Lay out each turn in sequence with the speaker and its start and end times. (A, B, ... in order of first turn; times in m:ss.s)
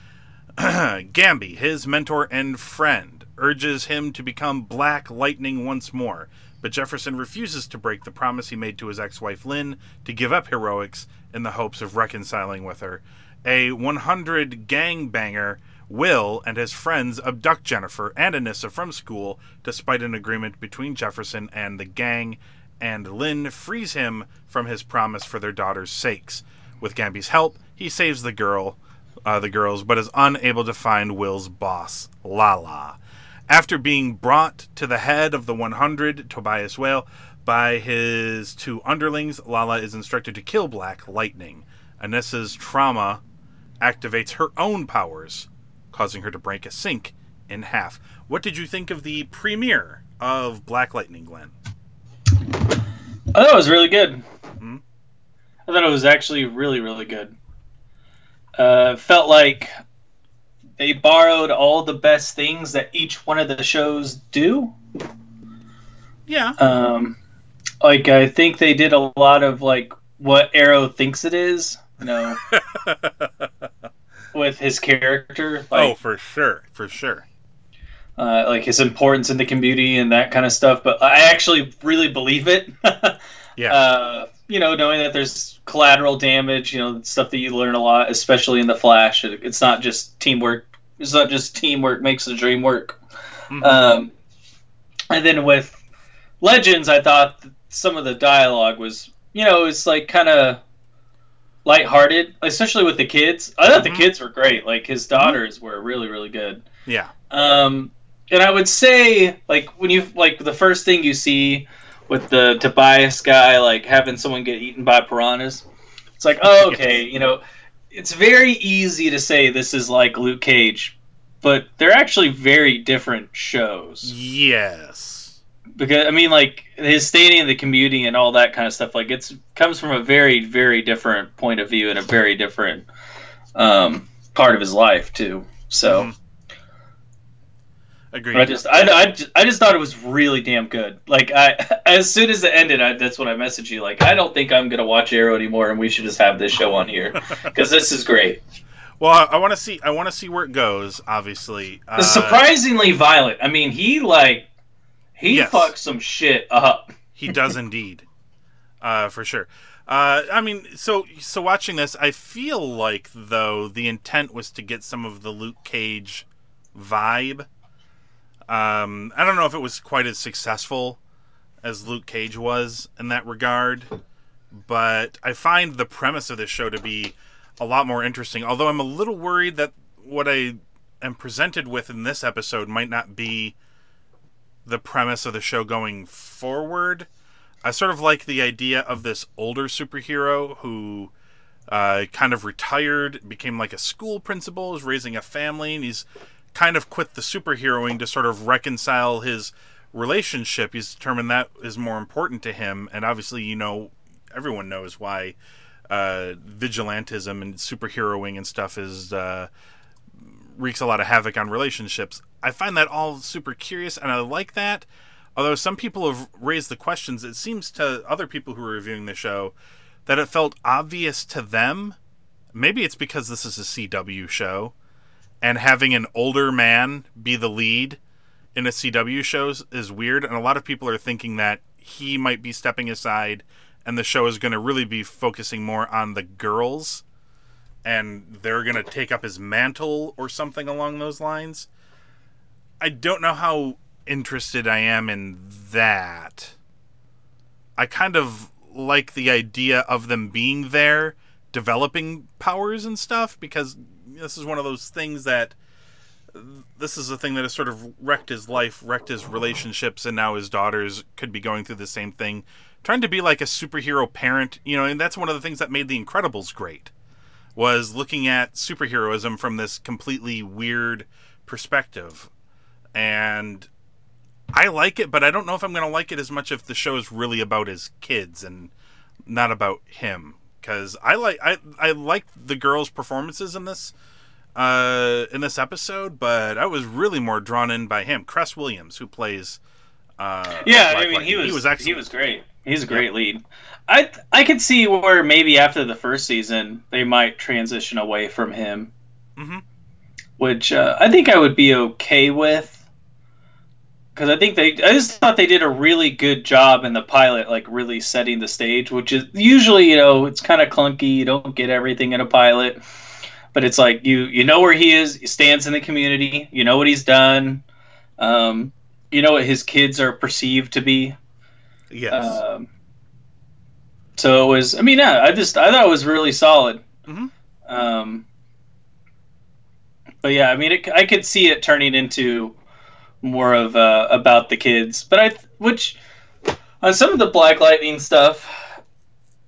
0:00.6-0:33.0 A
0:33.5-0:43.2 A
0:43.8-0:51.5 A
0:53.3-0:54.2 B
0:55.7-0:57.3 B
0:58.6-0:59.7 B
1:00.8-1:04.7 B
1:06.3-1:06.6 A
1:06.6-1:07.2 B
1:07.8-1:12.4 B
1:12.4-1:13.5 A
1:14.3-1:15.9 B
1:15.7-1:17.2 A
1:18.2-1:23.2 B
1:23.7-1:33.0 B
1:33.5-1:33.9 A
1:33.6-1:34.1 B
1:35.1-1:35.8 B
1:36.4-1:40.6 B
1:41.6-1:46.6 B
1:43.7-1:44.1 A
1:46.8-1:47.1 A
1:47.3-1:55.6 B
1:56.2-1:57.4 B
1:56.5-1:57.0 A
1:57.9-2:04.1 B
2:04.0-2:05.4 A
2:05.8-2:12.9 B
2:13.6-2:16.1 B
2:15.8-2:16.1 A
2:18.1-2:18.9 A
2:18.3-2:28.4 B
2:27.2-2:27.6 A
2:29.0-2:32.5 A
2:32.0-2:34.5 B
2:35.2-2:36.9 B
2:35.3-2:35.7 A
2:37.2-2:38.1 A
2:38.8-2:47.5 A
2:48.5-2:51.0 A
2:51.6-2:53.9 A
2:54.6-3:03.6 A
3:04.6-3:07.1 A
3:07.6-3:11.1 A
3:11.7-3:25.4 A
3:25.9-3:29.5 A
3:30.6-3:39.5 A
3:40.1-3:42.0 A
3:42.5-3:44.7 A
3:45.4-3:48.0 A
3:48.5-3:57.0 A
3:57.8-4:01.7 A
4:02.8-4:06.5 A
4:07.8-4:15.6 A
4:16.3-4:26.9 A
4:27.6-4:32.3 A
4:32.9-4:33.7 A
4:34.5-4:38.7 A
4:39.3-4:43.9 A
4:44.6-4:49.6 A
4:50.2-4:52.1 A
4:50.6-4:58.9 B
4:59.4-4:59.6 A
5:00.4-5:02.8 B
5:04.2-5:12.8 B
5:13.5-5:17.6 B
5:18.2-5:21.2 B
5:21.9-5:22.4 A
5:22.1-5:22.7 B
5:24.2-5:26.8 B
5:27.1-5:27.3 A
5:27.7-5:28.2 B
5:30.2-5:32.5 B
5:33.2-5:36.0 B
5:36.8-5:38.7 B